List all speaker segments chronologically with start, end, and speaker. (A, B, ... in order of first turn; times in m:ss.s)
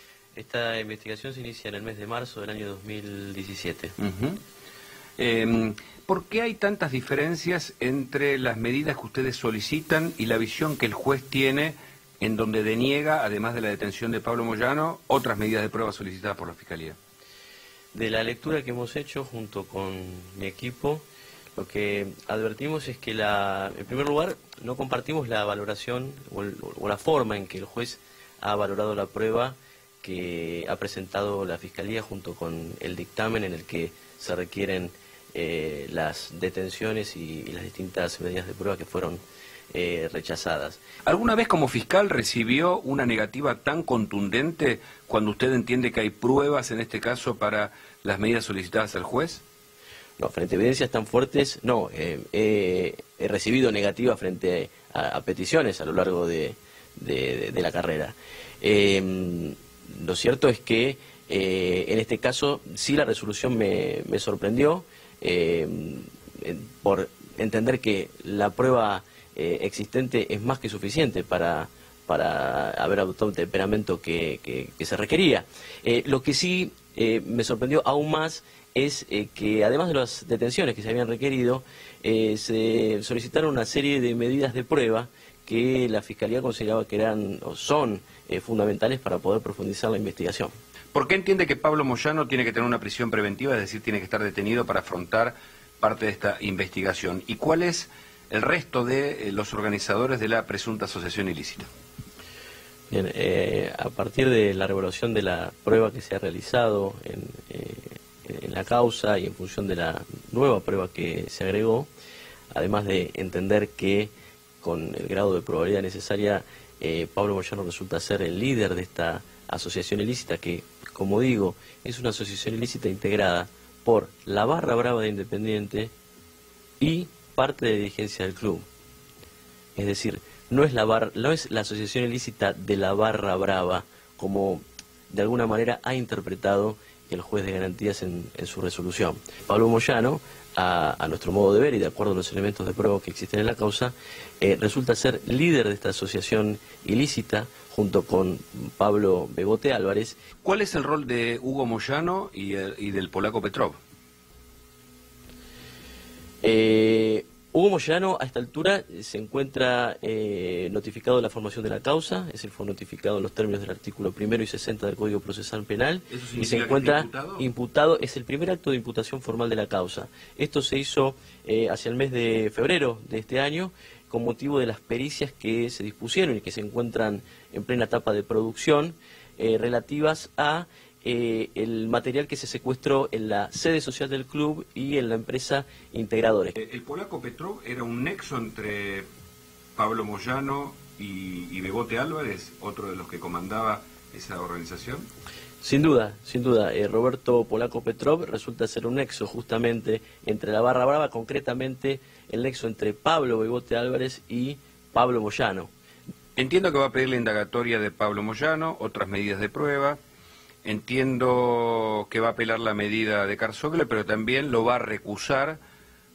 0:00.4-0:04.0 A
0:04.0-0:04.4 B
0:05.2-0:17.0 B
0:17.9-0:40.8 A
0:41.1-0:49.4 B
0:50.2-1:30.5 A
1:30.9-1:41.7 B
1:42.9-1:51.9 A
1:52.5-2:05.9 A
2:06.8-2:08.7 A
2:09.8-2:30.2 A
2:30.4-2:33.8 B
2:36.4-3:06.6 A
2:46.1-2:47.5 B
3:06.6-3:09.1 B
3:09.8-3:15.1 B
3:15.6-3:25.7 A
3:26.4-3:30.0 B
3:30.6-3:35.6 B